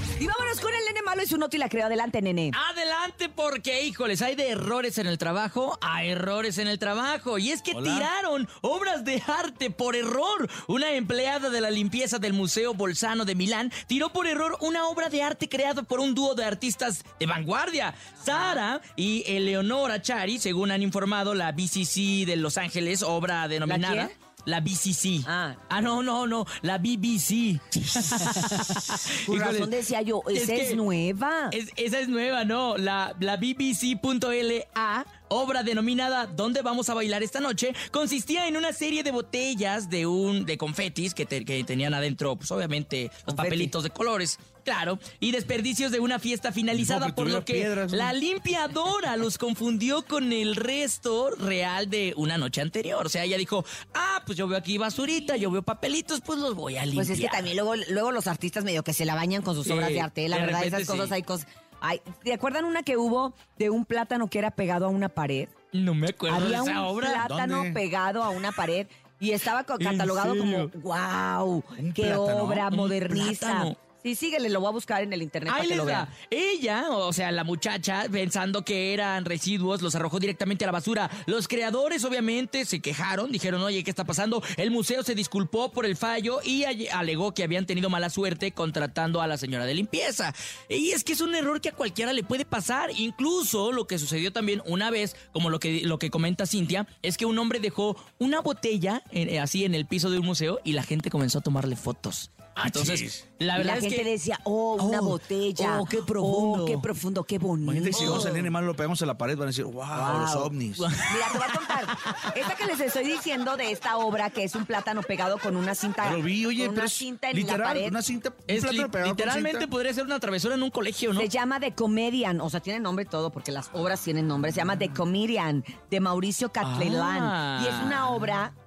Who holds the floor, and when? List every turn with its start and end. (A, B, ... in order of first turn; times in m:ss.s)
0:00.2-0:02.6 A
0:02.5-0:29.8 B
0:07.7-0:08.1 C
0:23.6-0:24.1 A
0:25.2-0:25.6 A
0:29.1-0:31.6 A
0:30.3-0:30.8 B
0:31.5-0:57.5 B
0:43.3-0:43.7 A
0:46.7-0:48.2 C
0:56.9-1:05.5 A
0:59.6-1:01.1 B
1:05.7-1:07.2 B
1:06.3-1:16.1 A
1:07.2-1:07.8 C
1:09.8-1:10.7 B
1:11.8-1:12.7 C
1:12.7-1:13.8 B
1:15.5-1:44.1 B
1:42.6-1:43.2 C
1:43.5-1:48.3 A
1:44.8-1:46.9 B
1:47.6-1:50.9 C
1:47.9-1:48.5 B
1:49.9-1:50.5 A
1:50.8-1:52.3 B
1:51.0-1:58.0 A
1:56.0-1:59.7 C
1:58.5-2:01.3 B
2:01.1-2:08.5 A
2:06.6-2:08.2 B